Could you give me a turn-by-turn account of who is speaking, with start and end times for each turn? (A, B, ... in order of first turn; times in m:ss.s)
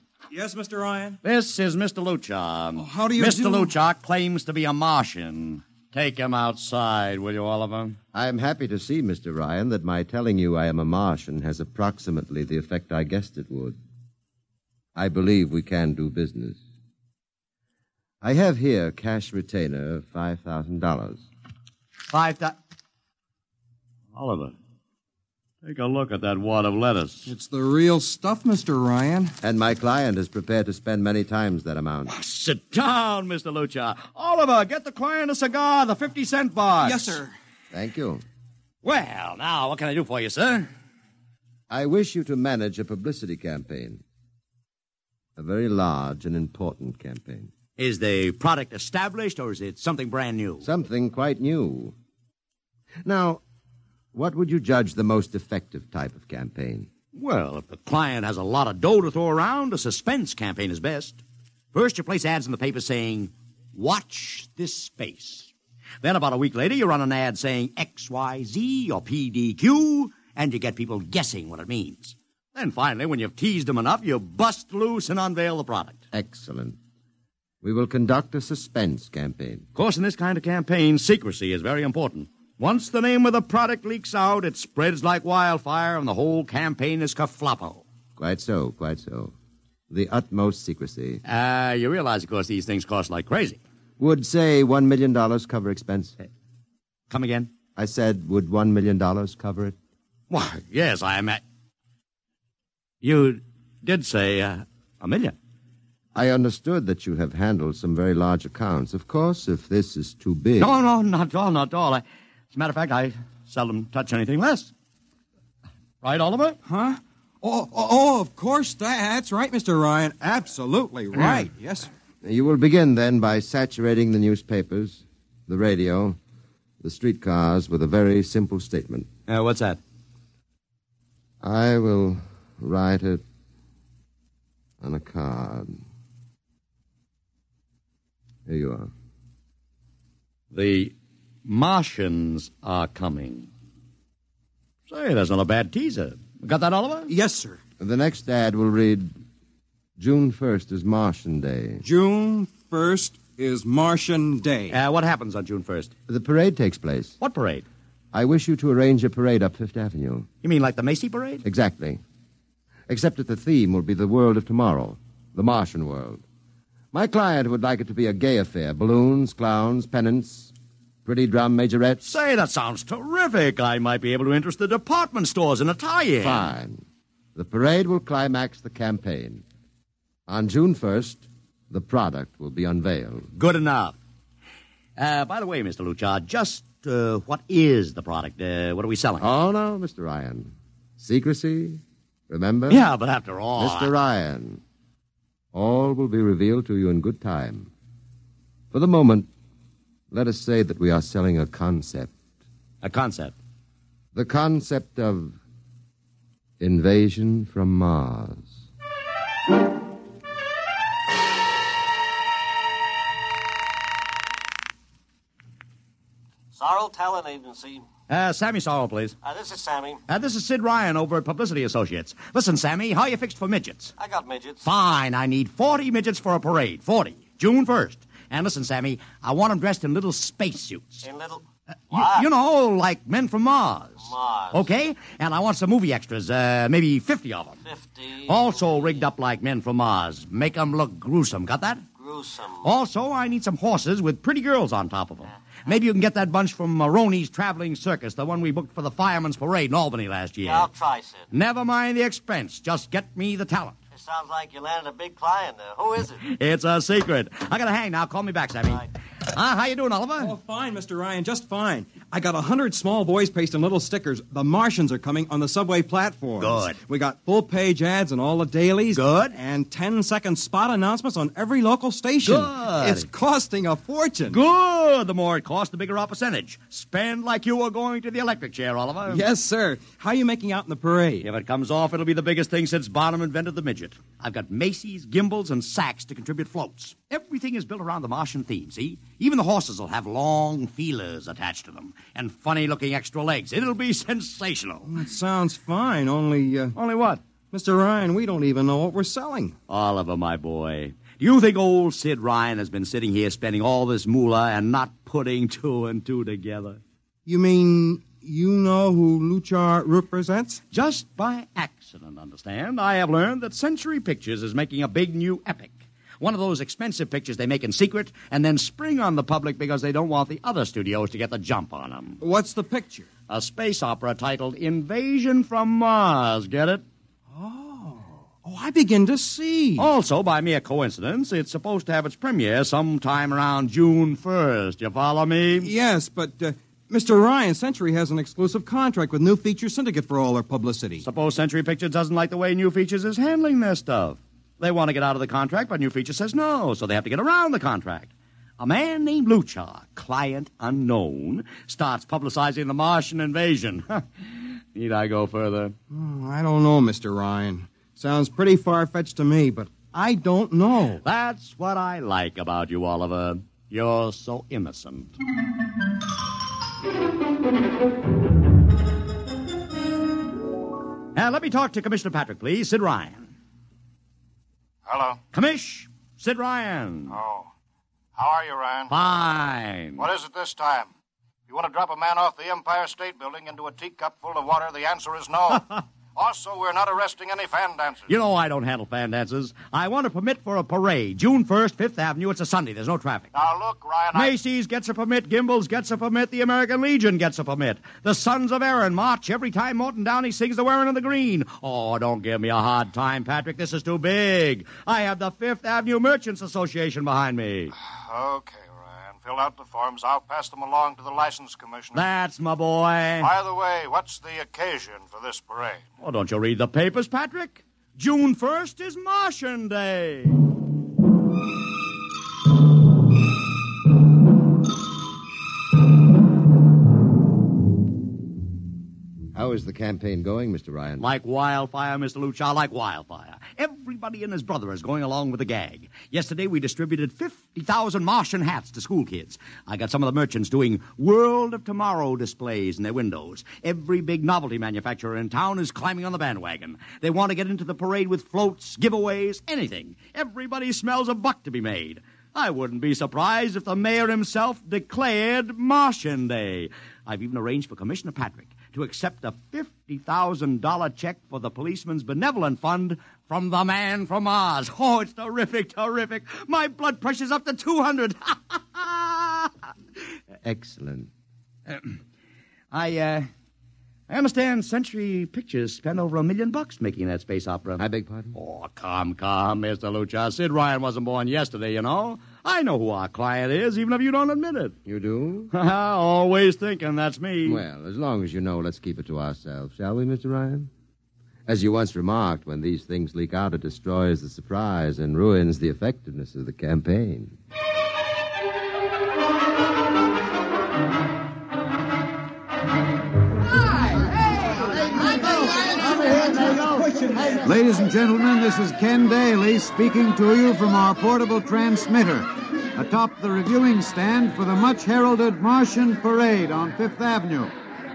0:00.3-0:01.2 A
0:01.2-0:08.0 B
0:02.8-0:03.7 A
0:08.1-0:13.8 C
0:14.9-0:16.6 C
0:18.2-0:21.2 C
0:22.1-0:22.6 B
0:24.1-0:24.5 B
0:25.6-0:27.3 B
0:27.2-0:29.3 A
0:29.4-0:32.1 C
0:32.1-0:37.2 B
0:36.8-0:37.3 A
0:37.7-0:38.2 C
0:38.8-0:40.7 B
0:41.7-0:44.0 C
0:45.4-0:47.5 C
0:47.8-0:50.6 B
0:50.6-0:51.9 C
0:53.0-0:53.4 C
0:54.1-0:56.9 C
0:57.1-1:01.2 B
1:01.7-1:16.0 B
1:16.1-1:16.8 C
1:17.6-1:19.6 C
1:19.7-1:27.8 B
1:28.2-1:29.3 C
1:29.9-1:31.2 C
1:31.2-1:33.6 B
1:34.0-1:36.2 C
1:37.1-1:37.5 B
1:37.8-1:39.8 C
1:40.3-1:41.4 B
1:43.0-1:45.3 B
1:46.1-1:50.7 C
1:50.6-1:54.7 B
1:56.0-1:56.6 B
1:56.6-2:01.9 A
2:01.2-2:01.4 B
2:02.2-2:06.2 C
2:06.8-2:09.1 C
2:09.3-2:09.8 B
2:11.4-2:13.2 C
2:14.8-2:15.8 C
2:18.4-2:18.9 C
2:20.5-2:20.9 B
2:21.4-2:23.5 B
2:24.9-2:27.1 B
2:27.1-2:27.6 A
2:27.8-2:29.1 C
2:30.0-2:31.8 C
2:31.8-2:34.8 A
2:34.7-2:35.9 B
2:36.1-2:37.2 C
2:37.2-2:37.6 B
2:38.1-2:40.3 C
2:40.4-2:41.4 B
2:41.4-2:42.0 C
2:42.9-2:46.2 C
2:46.9-2:50.5 C
2:51.0-2:52.2 C
2:52.0-2:56.5 B
2:56.2-2:56.8 C
2:57.3-2:59.4 C
3:00.3-3:03.3 C
3:03.3-3:04.0 B
3:05.0-3:09.2 B
3:09.2-3:12.8 C
3:12.7-3:13.9 B
3:13.6-3:14.6 C
3:15.5-3:17.7 C
3:18.7-3:19.3 C
3:20.1-3:22.1 C
3:22.8-3:23.3 B
3:24.1-3:25.4 C
3:26.6-3:28.6 C
3:36.5-3:37.8 D
3:38.1-3:39.1 B
3:39.2-3:40.0 D
3:40.1-3:43.9 B
3:44.0-3:44.6 D
3:44.6-3:51.1 B
3:51.0-3:52.3 D
3:51.9-3:57.6 B
3:54.0-3:54.7 D
3:57.6-3:59.0 D
3:58.2-4:01.8 B
4:02.0-4:02.6 D
4:02.6-4:10.7 B
4:10.4-4:11.3 D
4:11.3-4:13.8 B
4:13.9-4:16.2 D
4:16.2-4:20.3 B
4:20.2-4:34.4 A
4:26.4-4:26.8 B
4:28.9-4:29.3 B
4:32.2-4:33.1 B
4:34.3-4:39.2 B
4:39.1-4:41.2 A
4:41.2-4:54.9 B
4:54.8-4:56.8 A
4:56.8-4:57.2 B
4:57.5-4:59.5 A
4:59.7-5:06.8 B
5:07.2-5:10.6 A
5:10.7-5:22.2 B
5:22.2-5:23.1 A
5:23.3-5:26.8 B
5:27.3-5:29.9 A
5:29.8-5:35.7 B
5:35.6-5:41.0 A
5:41.0-5:54.0 B
5:54.7-5:55.8 B
5:55.9-6:01.0 A
6:01.0-6:05.1 B
6:11.2-6:13.3 B
6:14.8-6:15.2 E
6:15.3-6:17.2 B
6:17.1-6:17.5 E
6:18.1-6:18.9 E
6:18.9-6:20.0 B
6:20.0-6:20.9 E
6:21.5-6:28.1 E
6:28.1-6:33.3 B
6:33.3-6:34.4 E
6:34.1-6:47.7 B
6:48.0-6:52.1 E
6:51.9-6:53.3 B
6:53.2-6:55.8 E
6:56.0-7:00.4 B
7:09.3-7:11.0 C
7:11.0-7:49.5 B
7:50.4-7:51.1 C
7:51.7-7:52.0 B
7:52.7-7:53.3 B
7:54.1-8:04.7 B
7:57.8-7:58.4 C
8:04.8-8:05.5 C
8:05.5-8:07.6 B
8:07.4-8:10.7 C
8:11.4-8:17.3 C
8:27.3-8:37.5 F